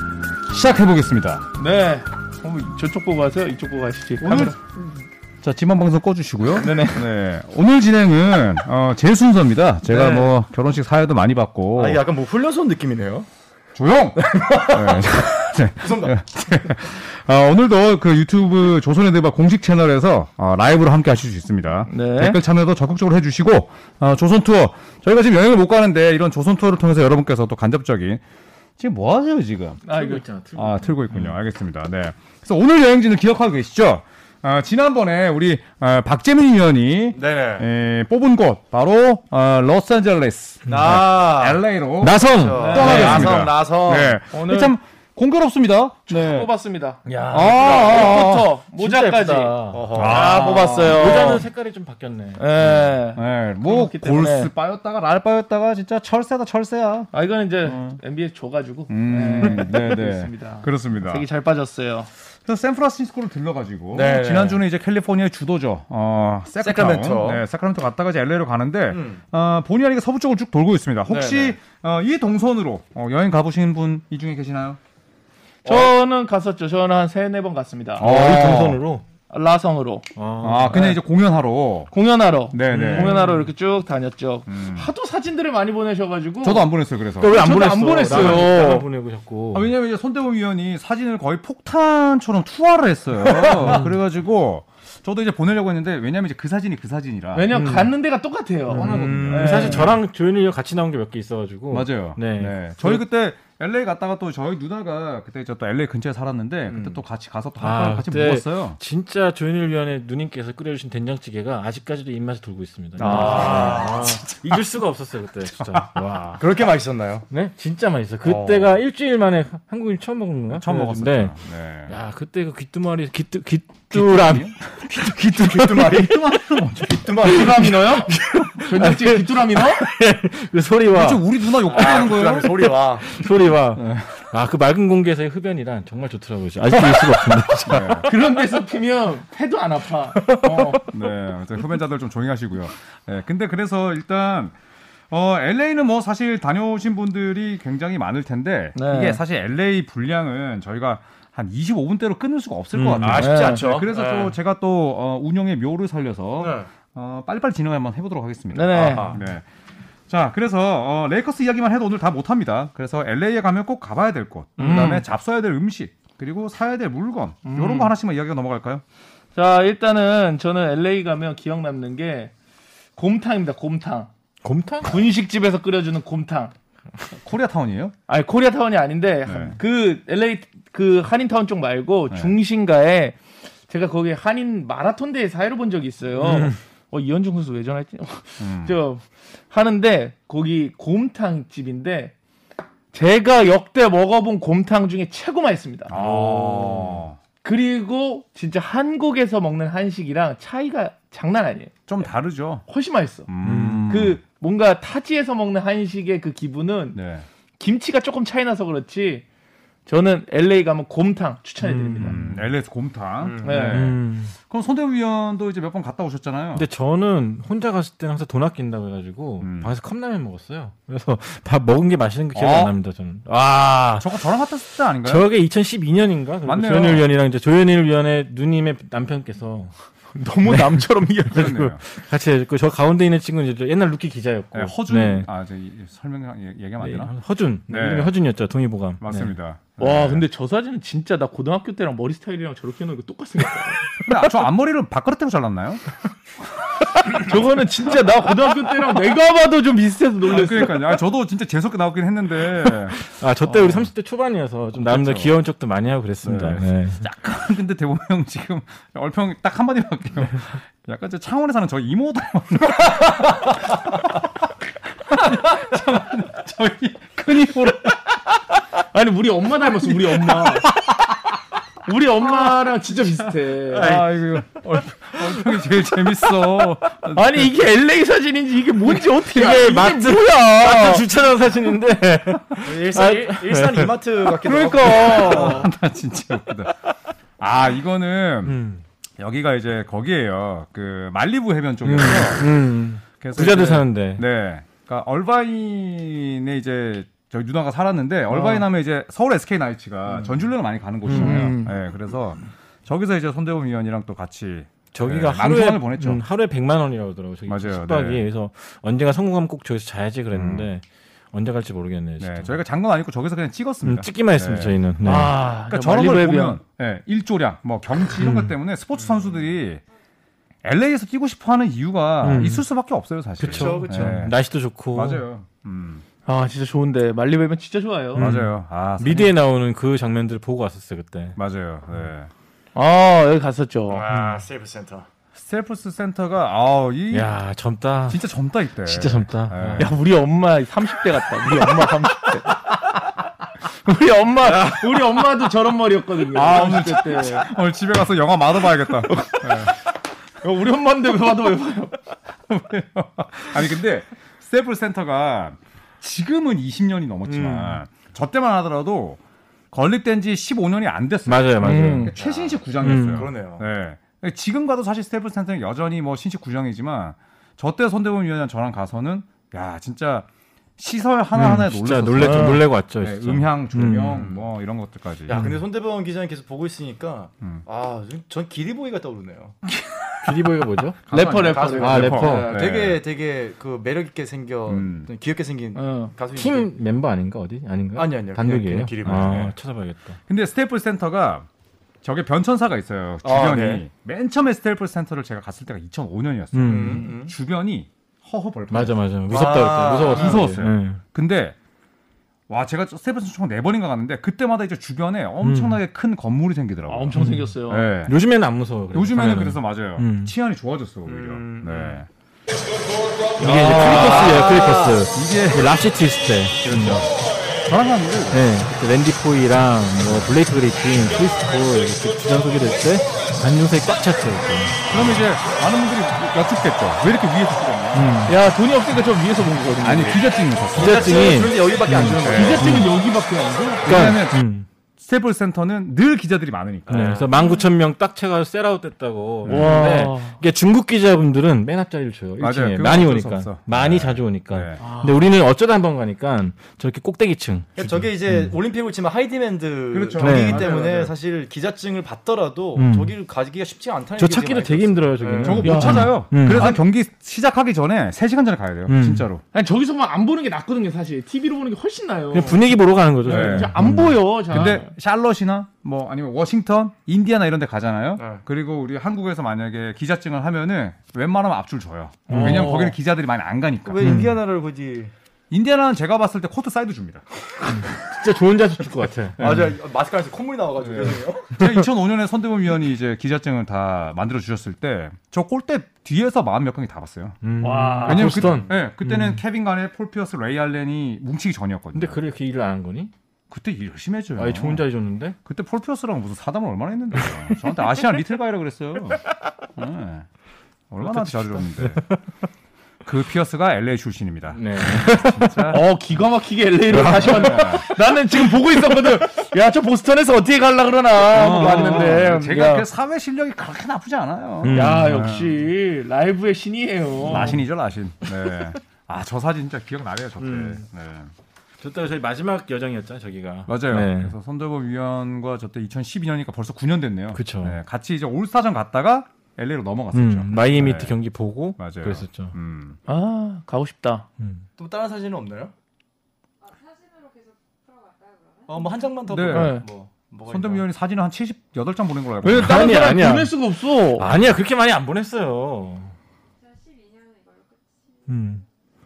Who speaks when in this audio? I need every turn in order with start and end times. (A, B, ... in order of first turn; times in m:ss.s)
0:00.5-0:01.5 A
0:01.6-0:04.6 B
0:04.2-0:04.9 A
0:05.4-0:12.0 A
0:06.5-0:07.1 B
0:09.9-0:10.3 C
0:11.8-0:13.3 C
0:13.7-0:28.2 A
0:14.1-0:16.2 C
0:21.9-0:22.4 B
0:28.8-0:29.9 A
0:29.8-0:30.2 B
0:29.9-0:31.3 D
0:30.6-0:46.5 A
0:37.1-0:37.6 C
0:40.7-0:41.6 C
0:42.0-0:43.5 D
0:42.3-0:44.2 C
0:42.5-0:43.3 B
0:44.3-0:44.7 B
0:46.1-0:51.4 B
0:47.0-0:48.2 D
0:47.3-0:48.5 A
0:48.7-0:52.4 D
0:49.7-0:51.2 C
0:49.9-0:51.3 A
0:52.4-0:54.5 B
0:52.6-0:57.1 A
0:57.1-1:02.1 B
0:57.7-0:58.0 A
0:58.9-1:01.2 A
1:02.4-1:14.8 A
1:03.9-1:04.6 C
1:06.6-1:07.4 C
1:08.9-1:09.2 C
1:11.1-1:11.6 C
1:15.6-1:15.9 C
1:15.6-1:18.1 B
1:18.0-1:18.8 A
1:18.0-1:19.0 D
1:19.3-1:20.1 B
1:20.2-1:20.9 D
1:20.4-1:21.9 A
1:21.9-1:26.7 B
1:22.5-1:23.2 A
1:22.7-1:23.5 D
1:24.5-1:24.9 A
1:26.4-1:28.8 A
1:27.2-1:29.7 D
1:27.2-1:28.8 B
1:29.5-1:37.5 A
1:33.6-1:33.9 D
1:37.3-1:39.9 B
1:37.5-1:37.9 D
1:38.7-1:43.0 D
1:38.7-1:39.9 A
1:41.7-1:48.8 A
1:46.7-1:47.0 C
1:47.6-1:56.4 D
1:53.0-1:54.2 C
1:53.1-1:54.6 A
1:55.6-1:55.9 A
1:56.4-1:57.2 C
1:57.3-2:01.4 D
1:58.2-1:58.7 A
2:00.5-2:01.9 A
2:01.9-2:04.5 D
2:03.9-2:07.1 A
2:04.9-2:07.8 C
2:05.3-2:06.0 D
2:07.2-2:09.8 B
2:07.2-2:11.3 D
2:10.9-2:12.7 A
2:11.6-2:13.1 C
2:12.6-2:18.1 D
2:13.7-2:14.1 A
2:17.6-2:18.1 A
2:18.0-2:20.9 B
2:20.2-2:20.8 D
2:20.9-2:24.5 A
2:25.1-2:39.4 A
2:28.7-2:29.2 B
2:32.7-2:33.2 D
2:33.0-2:34.3 C
2:33.1-2:33.7 B
2:36.4-2:36.7 C
2:38.5-2:39.1 B
2:38.9-2:39.2 C
2:40.1-2:48.8 A
2:44.6-2:45.0 B
2:47.4-2:47.9 B
2:49.4-2:52.3 B
2:53.0-2:54.1 B
2:54.4-2:55.0 D
2:54.8-2:56.5 B
2:57.2-2:57.9 A
2:58.1-3:03.2 B
2:59.2-2:59.6 A
3:03.7-3:12.1 B
3:06.2-3:06.5 D
3:08.4-3:08.8 A
3:12.9-3:15.9 B
3:15.9-3:17.2 A
3:15.9-3:17.0 D
3:17.4-3:21.7 B
3:21.9-3:22.6 A
3:22.7-3:23.3 B
3:23.3-3:24.2 A
3:23.4-3:23.9 D
3:23.9-3:27.0 B
3:26.9-3:27.2 A
3:27.6-3:29.2 B
3:29.9-3:32.2 B
3:31.6-3:32.5 D
3:32.0-3:36.6 A
3:33.2-3:33.6 C
3:33.4-3:33.9 B
3:33.6-3:34.3 D
3:36.5-3:44.2 D
3:39.4-3:39.7 A
3:42.3-3:42.7 A
3:44.0-3:45.3 A
3:45.0-3:49.7 D
3:46.4-3:47.0 A
3:50.1-3:51.6 B
3:50.5-3:55.3 D
3:51.3-3:51.8 A
3:54.5-3:57.1 A
3:56.8-3:59.3 D
3:57.7-3:58.2 A
3:59.0-4:00.2 A
3:59.8-4:04.2 B
4:04.0-4:05.8 A
4:07.0-4:11.0 B
4:10.2-4:13.9 A
4:13.1-4:17.0 D
4:14.8-4:15.3 A
4:16.2-4:24.1 A
4:25.0-4:28.0 A
4:28.9-4:30.7 B
4:29.7-4:31.3 A
4:31.8-4:34.0 B
4:32.2-4:32.6 A
4:33.2-4:37.5 A
4:37.1-4:41.0 B
4:39.2-4:44.7 D
4:42.6-4:45.7 C
4:44.4-4:46.7 A
4:44.8-4:45.7 B
4:47.4-4:48.6 A
4:48.4-4:48.8 D
4:49.2-4:52.5 A
4:51.8-4:54.2 D
4:53.2-5:06.2 A
5:01.1-5:01.5 D
5:01.1-5:01.7 B
5:04.9-5:12.5 D
5:07.5-5:08.2 A
5:10.3-5:10.7 A
5:12.2-5:19.8 A
5:13.8-5:15.3 D
5:15.0-5:16.6 B
5:18.2-5:18.6 D
5:19.0-5:19.2 C
5:20.6-5:24.3 A
5:22.2-5:22.6 D
5:23.4-5:25.2 D
5:23.5-5:24.2 C
5:24.9-5:26.0 A
5:26.2-5:28.3 B
5:28.2-5:31.4 D
5:28.2-5:29.3 A
5:31.4-5:32.3 A
5:32.7-5:34.0 B
5:33.9-5:35.1 C
5:34.1-5:34.4 D
5:35.4-5:37.3 A
5:37.1-5:38.2 D
5:38.1-5:39.9 A
5:38.8-5:39.9 D
5:39.8-5:42.7 B
5:43.8-5:47.5 B
5:46.3-5:49.7 A
5:48.8-5:49.8 B
5:50.4-5:52.0 B
5:52.5-5:59.2 A
5:59.7-6:15.4 A
6:01.2-6:02.1 D
6:01.6-6:02.1 B
6:02.2-6:03.6 C
6:02.8-6:03.3 D
6:11.3-6:14.3 D
6:12.2-6:12.6 B
6:15.3-6:19.6 C
6:15.3-6:15.6 D
6:20.2-6:21.0 D
6:21.1-6:23.0 A
6:21.1-6:22.2 B
6:21.4-6:26.7 C
6:21.7-6:22.6 D
6:24.6-6:25.1 A
6:25.8-6:26.1 B
6:26.3-6:30.2 D
6:28.0-6:29.5 C
6:29.0-6:29.6 A
6:30.3-6:31.5 A
6:32.0-6:39.0 A
6:33.2-6:33.8 C
6:36.5-6:37.1 D
6:36.6-6:37.3 C
6:38.7-6:41.0 D
6:39.3-6:40.4 C
6:40.0-6:41.6 A
6:42.5-6:48.1 A
6:45.4-6:45.8 D
6:46.9-6:47.9 B
6:47.2-6:47.5 D
6:48.0-6:50.3 D
6:48.9-6:52.1 A
6:51.0-6:52.0 C
6:53.4-6:57.0 D
6:53.4-6:55.8 A
6:53.8-6:54.9 C
6:56.6-6:57.1 A
6:57.6-6:58.4 A
6:58.3-7:05.2 D
7:00.0-7:00.3 A
7:04.9-7:08.3 A
7:07.9-7:08.3 D
7:08.2-7:10.2 B
7:09.8-7:11.4 A
7:10.7-7:12.7 C
7:10.7-7:12.9 D
7:12.2-7:12.8 A
7:12.2-7:13.9 B
7:13.8-7:14.4 A
7:13.8-7:14.7 D
7:15.0-7:17.2 A
7:16.9-7:28.6 D
7:16.9-7:17.3 C
7:19.4-7:19.8 A
7:19.4-7:20.4 B
7:22.4-7:24.8 A
7:24.8-7:25.2 B
7:27.8-7:35.7 C
7:29.9-7:31.1 A
7:30.2-7:30.6 D
7:30.4-7:31.1 B
7:32.8-7:33.1 D
7:34.2-7:36.7 D
7:35.4-7:39.4 A
7:35.6-7:36.8 B
7:38.9-7:39.3 D
7:39.5-7:44.9 B
7:42.3-7:44.2 D
7:43.2-7:43.9 A
7:44.5-7:54.2 A
7:48.2-7:48.4 C
7:52.3-7:53.0 B
7:52.3-7:52.7 D
7:53.8-7:55.1 C
7:54.0-7:54.4 D
7:55.5-7:57.2 A
7:57.7-7:59.5 D
7:59.4-7:59.8 A
7:59.4-8:01.6 C
8:00.8-8:07.4 A
8:07.4-8:09.4 D
8:07.6-8:08.5 B
8:08.0-8:12.2 A
8:08.3-8:08.8 C
8:11.9-8:13.1 D
8:13.5-8:14.9 A
8:14.4-8:15.4 D
8:15.4-8:19.2 A
8:19.7-8:20.3 A
8:20.9-8:22.0 A
8:21.0-8:22.2 D
8:23.0-8:25.8 A
8:24.5-8:25.4 D
8:25.1-8:32.9 B
8:26.9-8:27.6 D
8:26.9-8:27.9 A
8:31.3-8:35.6 A
8:34.6-8:35.2 D
8:34.7-8:37.6 B
8:37.2-8:41.3 A
8:40.4-8:40.8 D
8:41.8-8:44.3 D
8:43.7-8:51.2 A
8:47.3-8:47.8 D
8:50.1-8:52.6 D
8:51.8-8:53.0 A
8:53.1-8:54.2 B
8:54.8-8:55.7 C
8:56.6-8:59.2 E
8:58.7-9:00.8 C
8:59.3-8:59.8 A
8:59.5-8:59.8 B
9:00.4-9:03.1 A
9:02.4-9:04.3 B
9:02.4-9:03.6 D
9:04.1-9:06.1 D
9:06.6-9:08.6 E
9:08.3-9:08.6 D